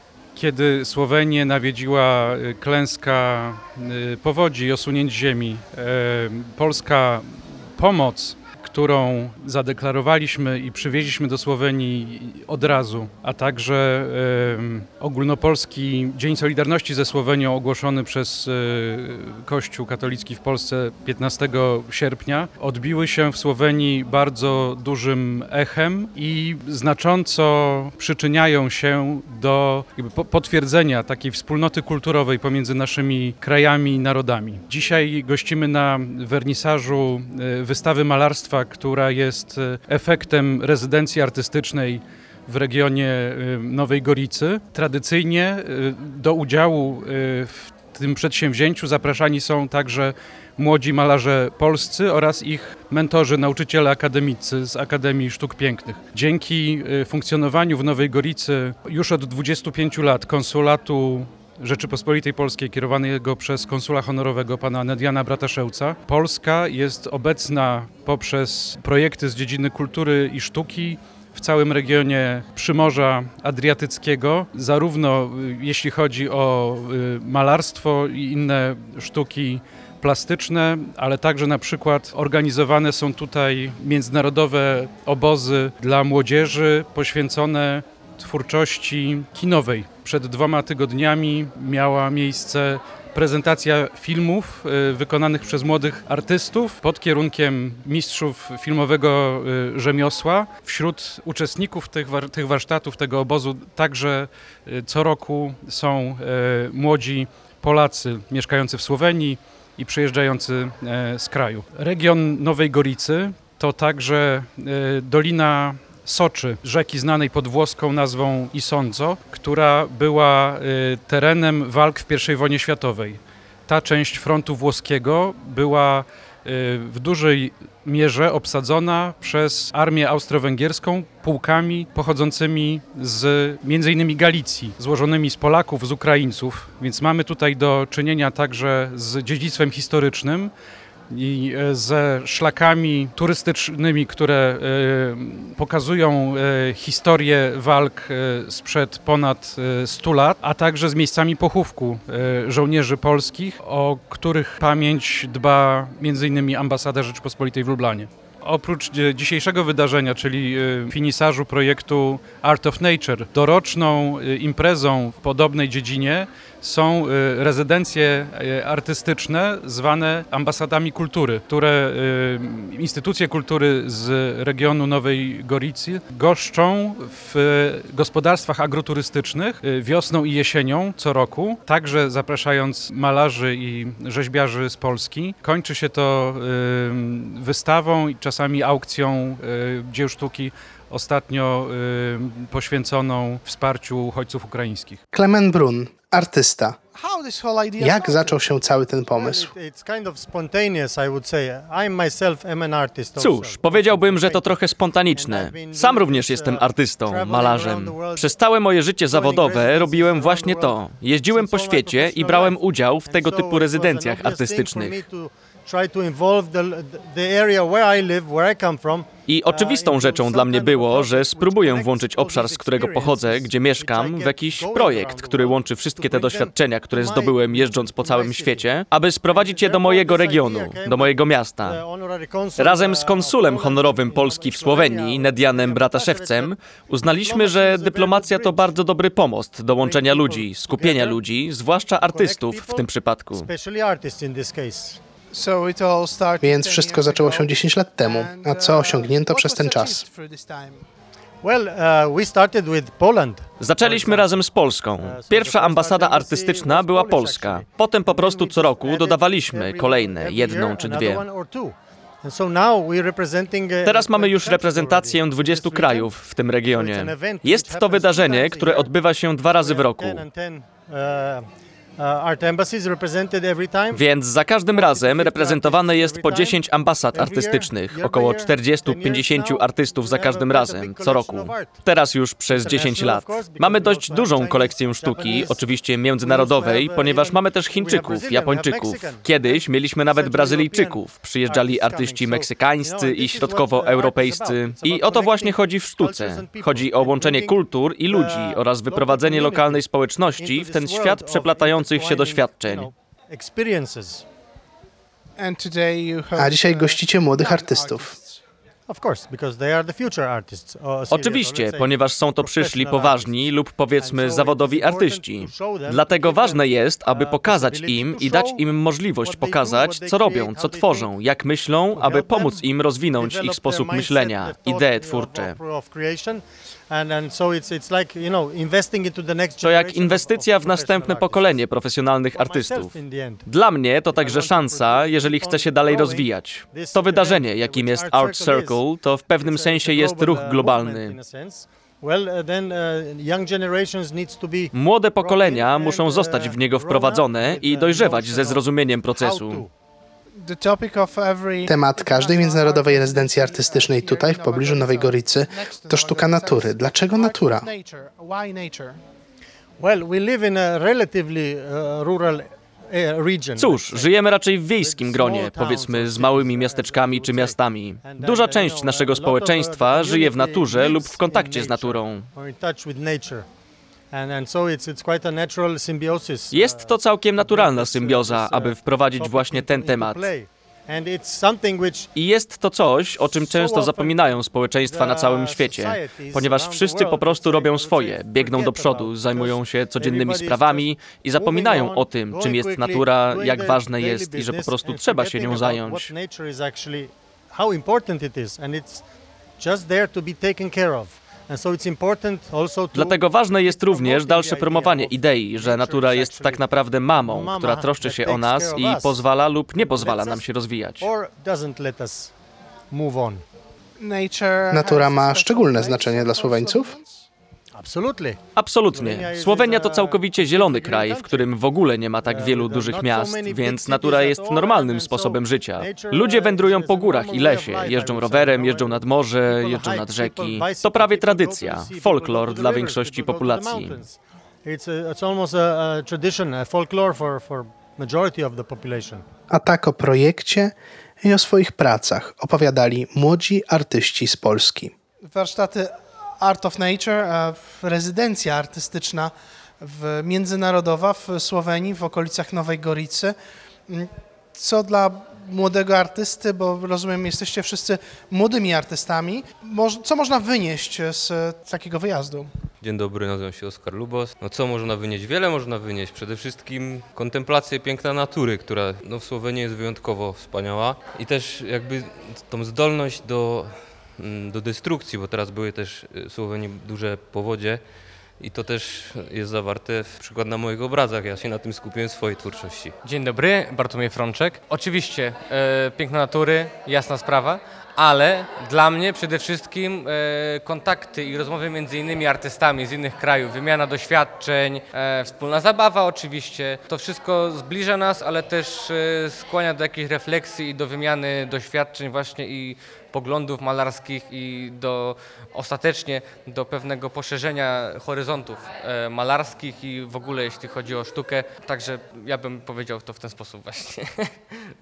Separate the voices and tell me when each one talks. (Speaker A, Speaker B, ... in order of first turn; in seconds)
Speaker A: 0.3-140.5, 141.1-195.0
Speaker B: 195.1-196.8, 197.8-199.5, 246.4-250.1, 306.4-308.1, 351.7-357.7, 414.7-416.9, 439.5-444.9
Speaker C: 196.9-198.4, 245.3-250.8, 305.4-308.4, 350.4-359.0, 414.0-417.3, 445.3-453.3, 453.9-462.5
Speaker D: 199.2-204.5, 205.2-206.6, 207.1-208.2, 209.1-210.8, 211.3-212.6, 213.1-226.4, 227.0-228.6, 229.3-231.2, 231.7-236.5, 237.2-238.7, 239.8-241.1, 242.1-242.8, 243.5-245.0, 251.4-254.3, 255.0-266.1, 266.7-268.9, 269.4-274.0, 274.7-276.5, 277.1-281.8, 282.5-285.6, 286.2-289.6, 290.1-297.6, 298.1-299.8, 300.4-304.2, 308.9-313.3, 314.0-318.6, 319.2-321.1, 321.9-322.6, 323.2-331.6, 332.3-333.4, 334.1-338.8, 339.5-348.6, 349.2-349.7, 359.8-364.1, 364.8-373.5, 374.1-376.9, 377.4-382.1, 383.4-384.1, 384.9-390.8, 391.4-399.0, 399.6-406.6, 407.2-409.1, 409.9-410.1, 411.0-412.3, 412.9-413.4, 417.7-418.4, 418.9-421.3, 422.3-439.2
Speaker E: 203.1-215.1, 219.3-231.9, 232.6-243.5, 253.6-261.3, 263.8-270.3, 273.9-302.9, 311.1-325.6, 329.6-341.2, 344.7-349.7, 363.6-372.3, 376.5-380.3, 382.1-396.1, 402.9-411.1, 418.5-434.1
Speaker F: 462.8-477.8, 478.4-482.9
Speaker G: 483.0-514.6